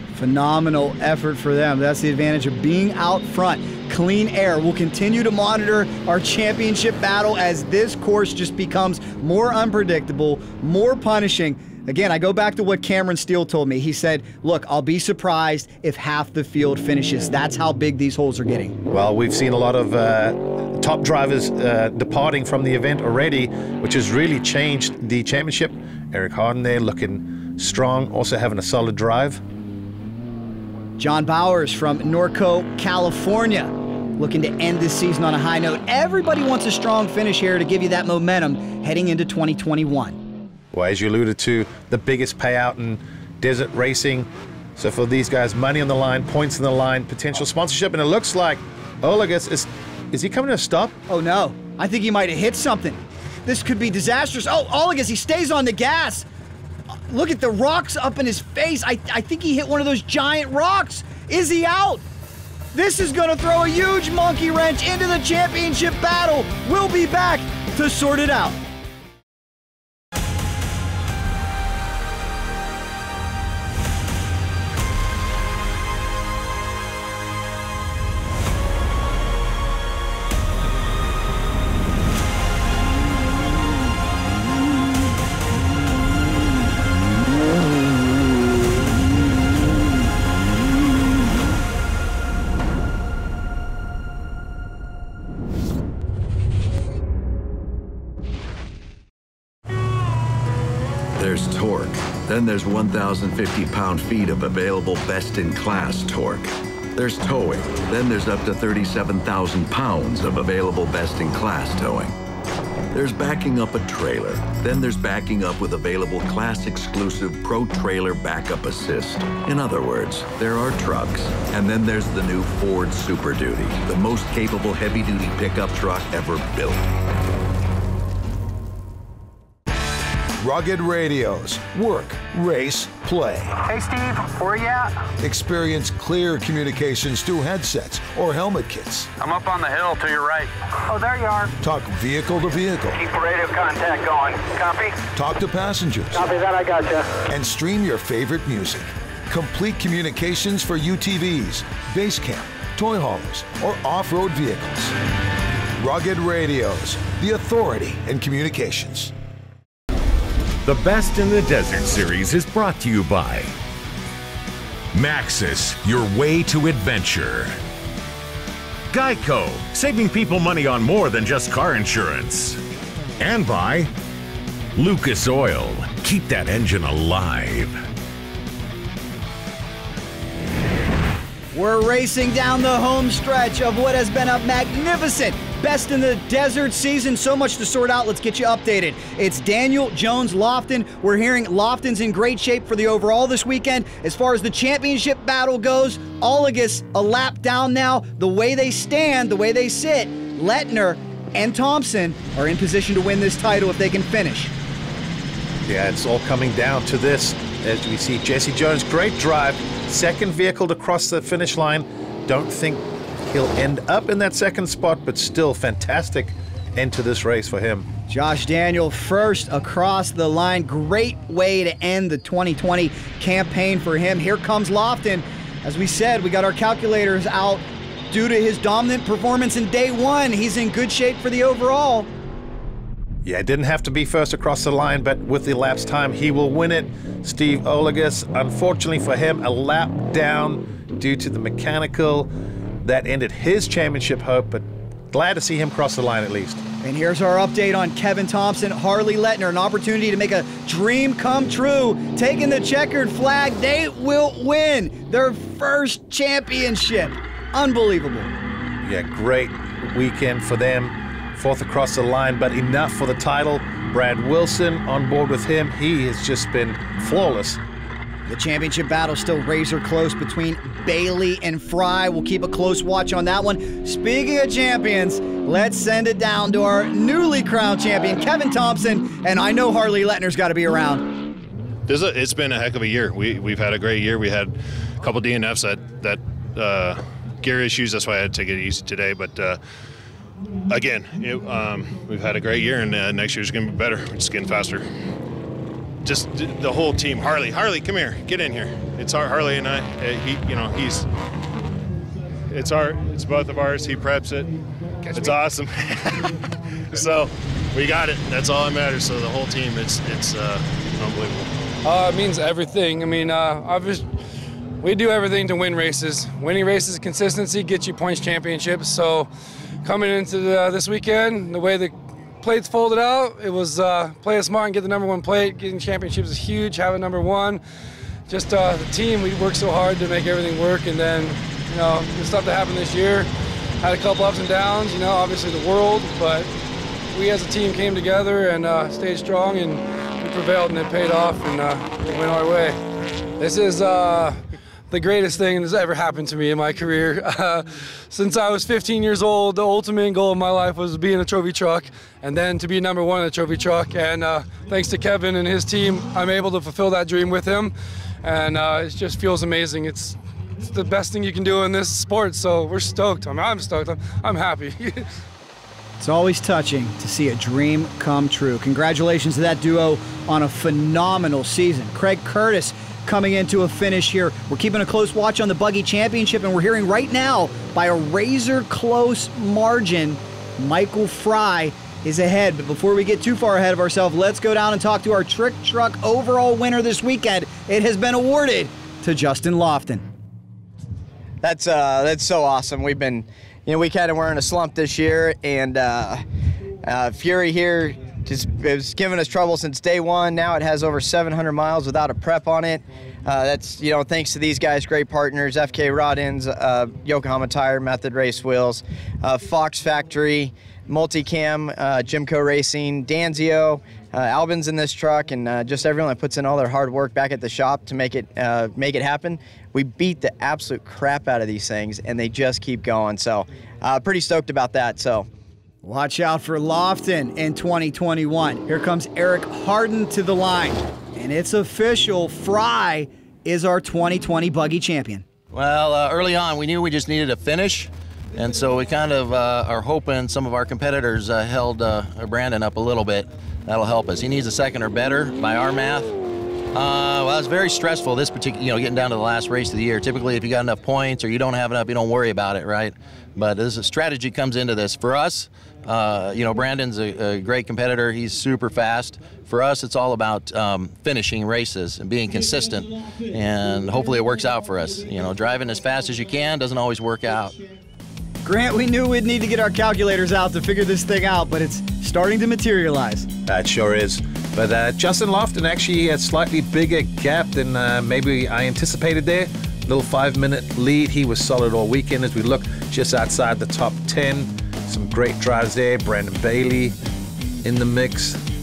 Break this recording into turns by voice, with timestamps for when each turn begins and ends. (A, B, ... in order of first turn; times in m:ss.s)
0:00.2-0:18.8 A
0:18.9-0:29.4 B
0:31.0-0:40.2 A
0:40.7-0:51.0 B
0:51.1-0:56.3 A
0:57.1-1:02.0 A
1:02.7-1:08.6 A
1:41.2-1:52.2 C
1:52.9-2:06.9 C
2:10.4-2:13.6 D
2:13.7-2:14.9 E
2:15.2-2:19.1 D
2:19.2-2:21.5 E
2:21.6-2:23.0 D
2:23.0-2:25.0 E
2:25.2-2:26.3 D
2:26.1-2:27.1 E
2:27.3-2:34.9 D
2:35.8-2:39.1 D
2:40.6-2:43.5 F
2:44.9-2:47.6 F
2:48.9-2:52.6 F
2:53.2-2:53.9 F
2:54.8-2:57.8 F
3:01.5-3:24.5 A
3:25.7-3:37.9 B
3:38.1-3:52.1 A
3:53.2-4:02.3 B
4:02.8-4:06.6 B
4:06.8-4:18.3 A
4:18.8-4:27.6 B
4:28.3-4:41.0 A
4:41.9-4:49.6 G
4:50.7-4:54.8 G
4:56.0-5:01.1 G
5:02.5-5:04.6 G
5:05.1-5:06.4 G
5:06.9-5:11.5 G
5:11.8-5:14.1 H
5:14.8-5:19.3 H
5:19.8-5:27.6 H
5:28.3-5:33.3 H
5:33.8-5:36.5 H
5:37.1-5:42.8 H
5:43.4-6:05.0 H
6:06.0-6:30.0 A
6:31.4-6:36.2 I
6:36.8-7:05.3 I
7:05.8-7:15.2 A
7:15.5-7:26.1 J
7:26.7-7:47.6 J
7:48.4-7:53.3 A
7:53.5-8:07.0 B
8:07.6-8:08.4 B